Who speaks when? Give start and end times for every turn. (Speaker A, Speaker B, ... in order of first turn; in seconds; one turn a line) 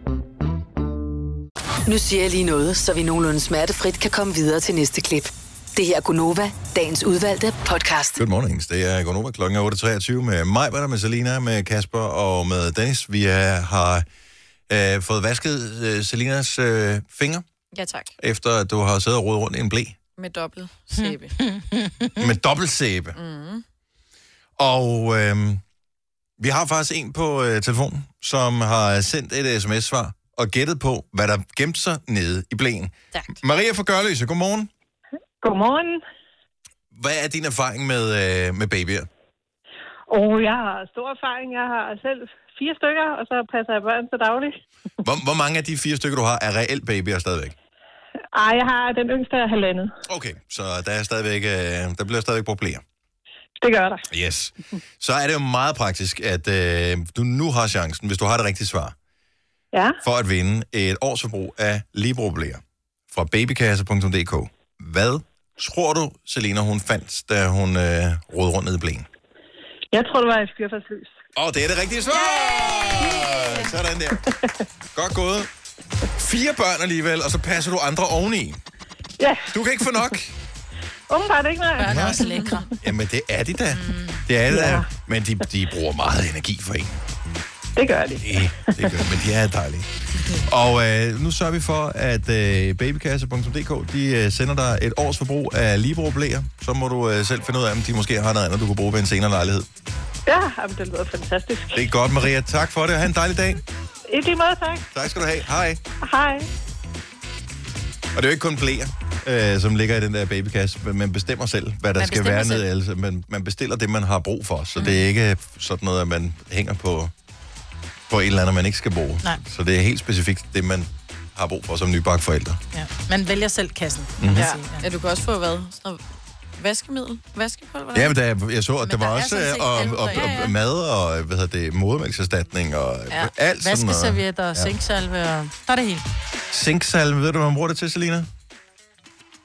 Speaker A: 1.9-8.2
Speaker B: 8.2-14.1
Speaker B: 14.7-17.4
Speaker C: 17.7-18.1
Speaker B: 18.2-19.9
Speaker C: 20.2-21.4
Speaker D: 20.9-22.2
Speaker B: 22.2-23.1
Speaker C: 23.1-23.6
Speaker B: 24.6-25.6
Speaker B: 26.4-34.7
Speaker E: 35.4-36.0
Speaker B: 36.9-39.1
Speaker E: 40.1-44.6
Speaker B: 45.0-47.5
Speaker E: 48.3-49.9
Speaker B: 50.0-52.8
Speaker E: 53.6-54.1
Speaker B: 54.1-58.9
Speaker E: 59.7-60.0
Speaker B: 60.0-69.0
Speaker E: 69.9-71.1
Speaker B: 71.3-74.2
Speaker E: 73.0-73.3
Speaker B: 74.9-75.5
Speaker B: 76.2-78.6
Speaker E: 79.2-80.1
Speaker B: 79.5-80.3
Speaker E: 81.1-82.4
Speaker D: 81.8-82.7
Speaker B: 81.8-82.2
Speaker B: 82.8-87.0
Speaker D: 83.7-84.2
Speaker E: 84.5-84.9
Speaker E: 87.8-89.0
Speaker B: 88.2-99.7
Speaker E: 100.3-101.8
Speaker B: 101.7-103.6
Speaker E: 104.1-104.9
Speaker B: 104.9-105.8
Speaker E: 106.0-106.5
Speaker B: 108.1-117.1
Speaker D: 112.0-112.6
Speaker B: 118.1-122.6
Speaker D: 122.7-124.8
Speaker B: 124.2-124.5
Speaker C: 124.3-128.1
Speaker B: 127.9-134.7
Speaker D: 128.8-130.5
Speaker C: 130.2-130.4
Speaker D: 133.6-136.0
Speaker B: 136.5-138.3